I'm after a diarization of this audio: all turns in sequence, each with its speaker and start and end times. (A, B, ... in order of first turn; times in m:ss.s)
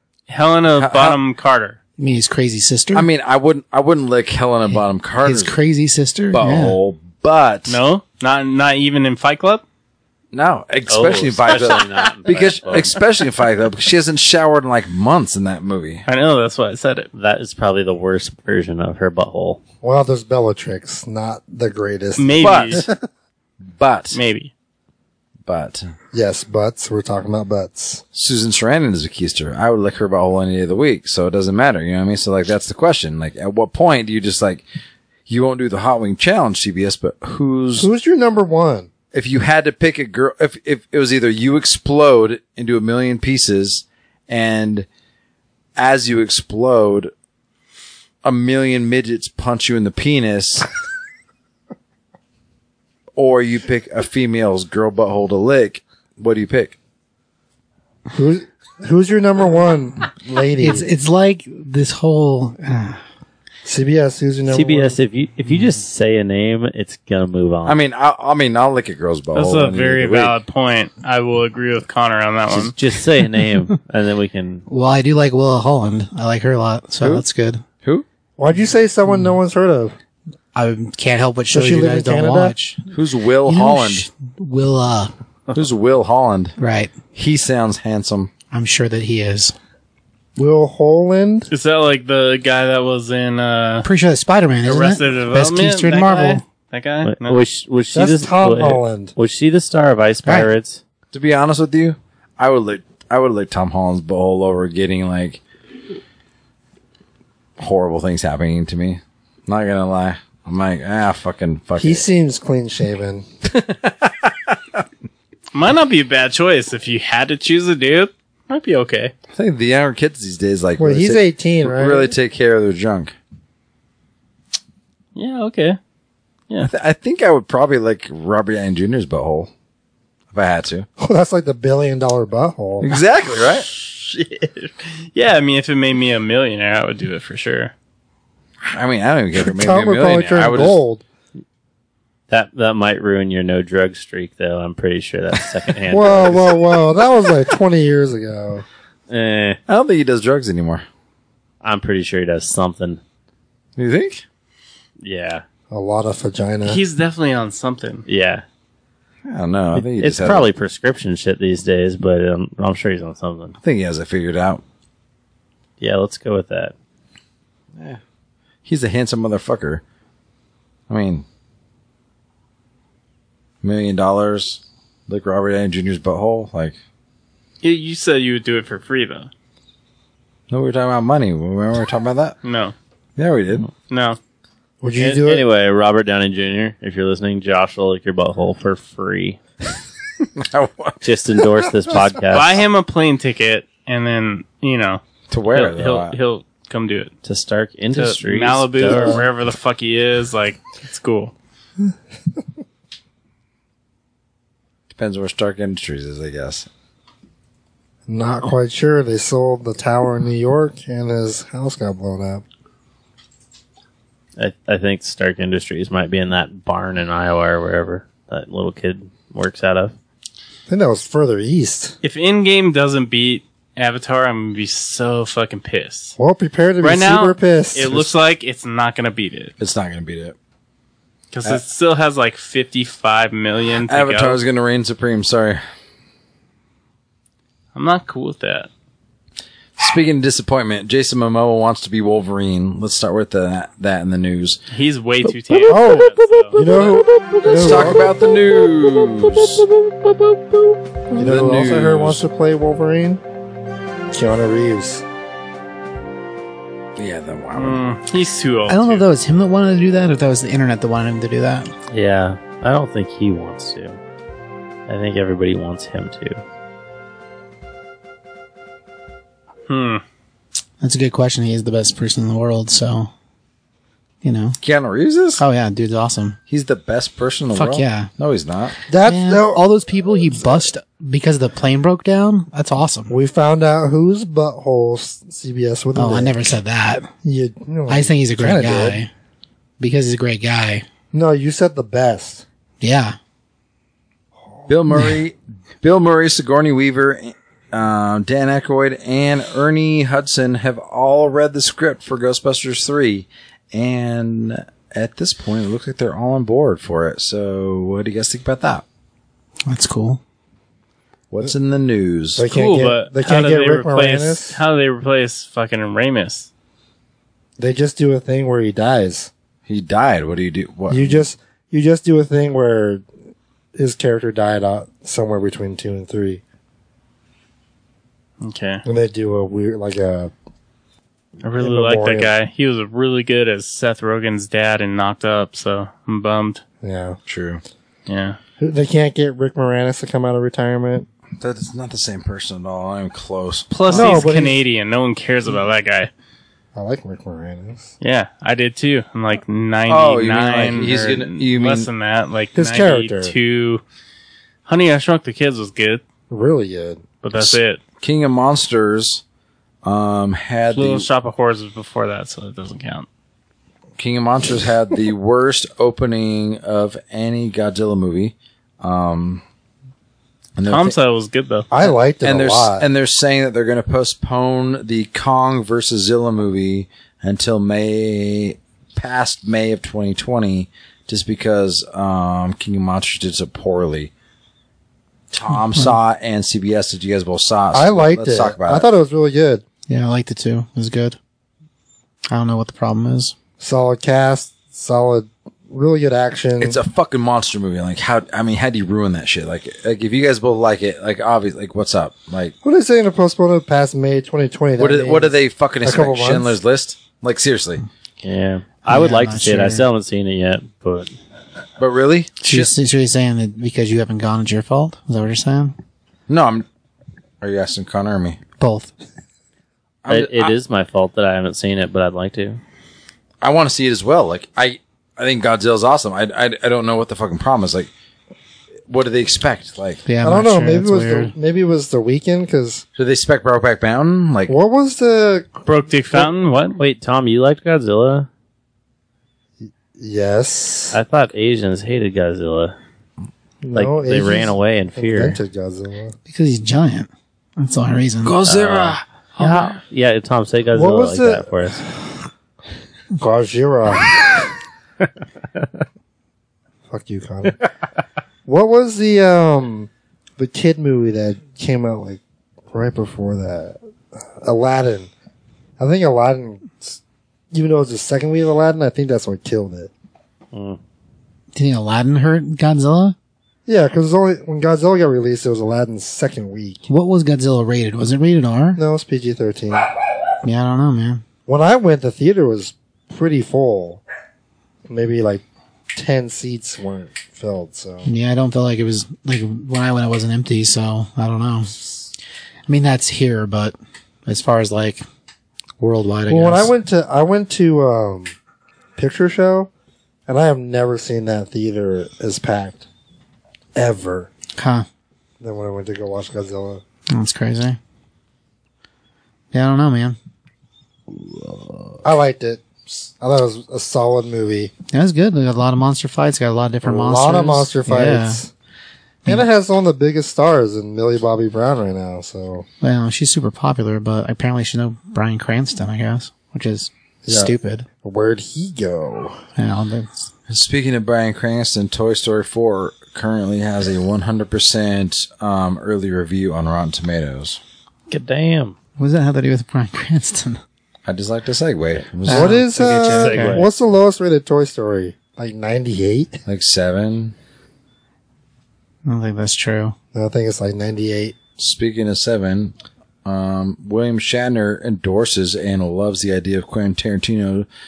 0:00.3-0:01.8 A
0:00.8-0:01.2 B
0:02.0-0:03.1 C
0:02.9-0:05.5 B
0:04.7-0:06.8 C
0:06.3-0:07.8 B
0:07.7-0:09.6 A
0:10.3-0:16.0 B
0:10.9-0:13.0 D
0:11.5-0:13.0 A
0:16.0-0:17.1 A
0:17.1-0:19.6 D
0:19.8-0:23.0 E
0:22.2-0:22.8 A
0:22.4-0:22.8 B
0:23.8-0:24.2 B
0:24.1-0:24.5 A
0:25.4-0:25.9 B
0:26.1-0:28.0 E
0:28.1-0:34.6 B
0:35.3-0:37.9 B
0:37.8-0:38.9 E
0:39.1-0:44.8 B
0:45.8-0:47.1 B
0:48.2-0:50.7 B
0:53.2-0:56.8 B
0:58.1-1:00.9 E
1:00.6-1:03.0 C
1:03.6-1:05.0 E
1:04.5-1:07.8 D
1:07.6-1:10.4 B
1:09.3-1:12.7 A
1:12.5-1:14.6 D
1:14.7-1:17.6 C
1:18.4-1:20.0 E
1:20.5-1:22.9 C
1:21.5-1:22.5 E
1:22.9-1:24.1 B
1:23.4-1:25.1 C
1:25.5-1:26.6 B
1:26.6-1:27.0 C
1:27.1-1:28.3 B
1:28.5-1:29.6 C
1:30.4-1:31.5 E
1:31.5-1:33.8 A
1:33.8-1:36.4 C
1:34.6-1:37.4 A
1:37.0-1:40.8 D
1:37.9-1:39.1 E
1:40.2-1:40.5 C
1:41.1-1:45.4 B
1:47.6-1:52.0 B
1:51.8-1:53.3 E
1:53.4-1:54.6 B
1:55.5-1:59.1 A
1:59.3-2:03.2 B
2:00.8-2:02.1 E
2:05.1-2:05.8 A
2:06.6-2:09.5 B
2:10.3-2:10.9 B
2:11.0-2:13.0 E
2:12.8-2:13.7 B
2:13.7-2:17.7 A
2:18.6-2:20.8 B
2:19.4-2:21.0 E
2:22.3-2:26.5 D
2:25.9-2:28.6 E
2:29.1-2:29.6 D
2:29.7-2:30.8 B
2:31.6-2:33.0 D
2:33.8-2:34.2 B
2:35.0-2:35.4 D
2:35.7-2:36.8 E
2:36.6-2:38.0 A
2:38.0-2:38.4 D
2:39.2-2:40.5 B
2:39.7-2:43.6 D
2:43.6-2:44.6 B
2:45.8-2:46.7 D
2:48.6-2:49.8 B
2:50.9-2:51.2 B
2:53.6-2:56.8 B
2:57.6-2:59.3 A
3:00.5-3:02.4 B
3:02.4-3:02.7 A
3:03.2-3:03.7 B
3:03.7-3:04.2 A
3:04.8-3:05.4 E
3:05.0-3:09.4 D
3:10.3-3:11.0 B
3:11.0-3:12.6 D
3:12.3-3:15.0 A
3:15.3-3:16.2 B
3:15.5-3:17.1 A
3:17.2-3:19.2 D
3:17.9-3:21.3 A
3:18.8-3:19.2 E
3:24.9-3:26.7 B
3:28.1-3:32.4 E
3:34.4-3:39.9 D
3:40.7-3:42.0 E
3:42.0-3:46.2 A
3:46.2-3:48.1 E
3:46.8-3:49.5 A
3:49.6-3:50.4 B
3:51.3-3:54.4 A
3:53.8-3:55.6 B
3:57.7-3:58.7 A
3:59.8-4:04.6 B
4:04.7-4:06.6 A
4:05.6-4:08.1 E
4:06.7-4:09.7 B
4:11.1-4:12.2 B
4:11.2-4:13.2 E
4:14.1-4:15.0 E
4:17.0-4:17.8 B
4:17.6-4:19.0 A
4:18.7-4:21.7 C
4:21.9-4:24.0 D
4:24.9-4:26.4 D
4:29.7-4:30.0 A
4:30.8-4:33.1 C
4:34.2-4:34.6 C
4:34.6-4:35.4 B
4:35.4-4:36.4 C
4:36.5-4:38.8 B
4:37.5-4:38.1 C
4:38.9-4:40.6 E
4:39.0-4:43.1 C
4:43.1-4:46.3 E
4:45.9-4:47.1 C
4:47.2-4:49.0 E
4:47.9-4:49.1 C
4:49.8-4:50.8 C
4:51.1-4:52.4 E
4:52.8-4:53.2 C
4:54.7-5:08.8 B
5:09.7-5:10.2 C
5:11.3-5:12.4 B
5:12.4-5:14.6 E
5:12.5-5:16.5 A
5:17.6-5:19.3 E
5:19.7-5:21.2 B
5:20.9-5:23.0 E
5:23.8-5:26.4 E
5:28.4-5:28.8 A
5:28.8-5:30.3 E
5:31.4-5:36.6 A
5:31.6-5:32.3 E
5:36.8-5:37.2 E
5:37.3-5:37.6 B
5:38.1-5:38.4 A
5:38.6-5:41.1 E
5:41.4-5:44.2 B
5:43.7-5:46.1 A
5:43.9-5:44.6 E
5:46.7-5:47.9 E
5:48.0-5:53.8 A
5:49.9-5:51.9 B
5:52.5-5:53.3 E
5:54.6-5:56.0 A
5:56.3-5:57.0 E
5:57.2-5:57.8 A
5:57.4-5:59.2 B
5:59.8-6:01.1 B
6:00.7-6:03.1 A
6:04.0-6:09.4 B
6:10.6-6:10.9 B
6:10.7-6:11.7 A
6:11.7-6:12.9 E
6:12.2-6:24.1 B
6:25.3-6:28.9 B
6:27.7-6:29.6 E
6:29.9-6:31.2 C
6:32.3-6:33.3 C
6:33.6-6:36.8 E
6:36.6-6:42.5 B
6:42.6-6:46.6 E
6:44.8-6:47.8 B
6:48.2-6:51.1 D
6:48.8-6:49.8 C
6:51.8-6:52.7 B
6:52.4-6:55.8 C
6:56.3-6:56.6 B
6:57.4-6:58.4 B
6:58.6-6:58.9 C
7:00.0-7:00.5 B
7:00.1-7:02.6 D
7:03.4-7:07.9 B
7:08.9-7:10.1 B
7:10.0-7:11.3 C
7:10.2-7:12.8 E
7:13.0-7:14.5 B
7:14.5-7:16.3 E
7:15.6-7:16.8 A
7:16.8-7:18.3 D
7:19.6-7:21.0 E
7:20.9-7:22.8 D
7:23.6-7:26.1 E
7:23.7-7:25.4 D
7:26.3-7:28.5 C
7:28.2-7:29.0 B
7:28.5-7:31.8 D
7:29.4-7:29.7 C
7:30.7-7:31.5 E
7:33.2-7:34.3 E
7:36.9-7:37.6 E
7:38.4-7:42.2 E
7:42.7-7:43.8 E
7:44.4-7:45.1 E
7:45.8-7:47.0 E
7:47.5-7:49.9 E
7:50.5-7:50.8 D
7:51.5-7:53.2 C
7:53.6-7:56.9 E
7:56.9-7:58.8 C
7:58.8-7:59.9 E
8:00.4-8:01.2 C
8:01.5-8:04.0 E
8:04.9-8:05.4 E
8:05.9-8:08.1 E
8:08.0-8:11.7 C
8:12.7-8:13.7 C
8:14.2-8:15.0 C
8:15.8-8:16.7 C
8:16.3-8:18.3 E
8:19.0-8:19.7 E
8:20.3-8:22.8 E
8:23.7-8:24.3 E
8:24.6-8:24.9 C
8:25.4-8:26.8 E
8:27.1-8:27.8 C
8:29.5-8:30.2 C
8:32.0-8:34.7 E
8:34.9-8:38.4 C
8:36.8-8:38.5 E
8:39.2-8:42.6 E
8:42.8-8:47.9 C
8:47.2-8:49.4 E
8:49.6-8:50.3 C
8:50.5-8:57.6 B
8:58.1-8:58.8 D
8:59.0-9:00.6 C
9:01.0-9:02.6 B
9:02.2-9:03.6 C
9:02.2-9:06.4 E
9:03.0-9:03.7 D
9:06.4-9:07.3 B
9:09.0-9:10.0 C
9:10.1-9:11.4 E
9:11.6-9:12.7 B
9:13.2-9:17.6 B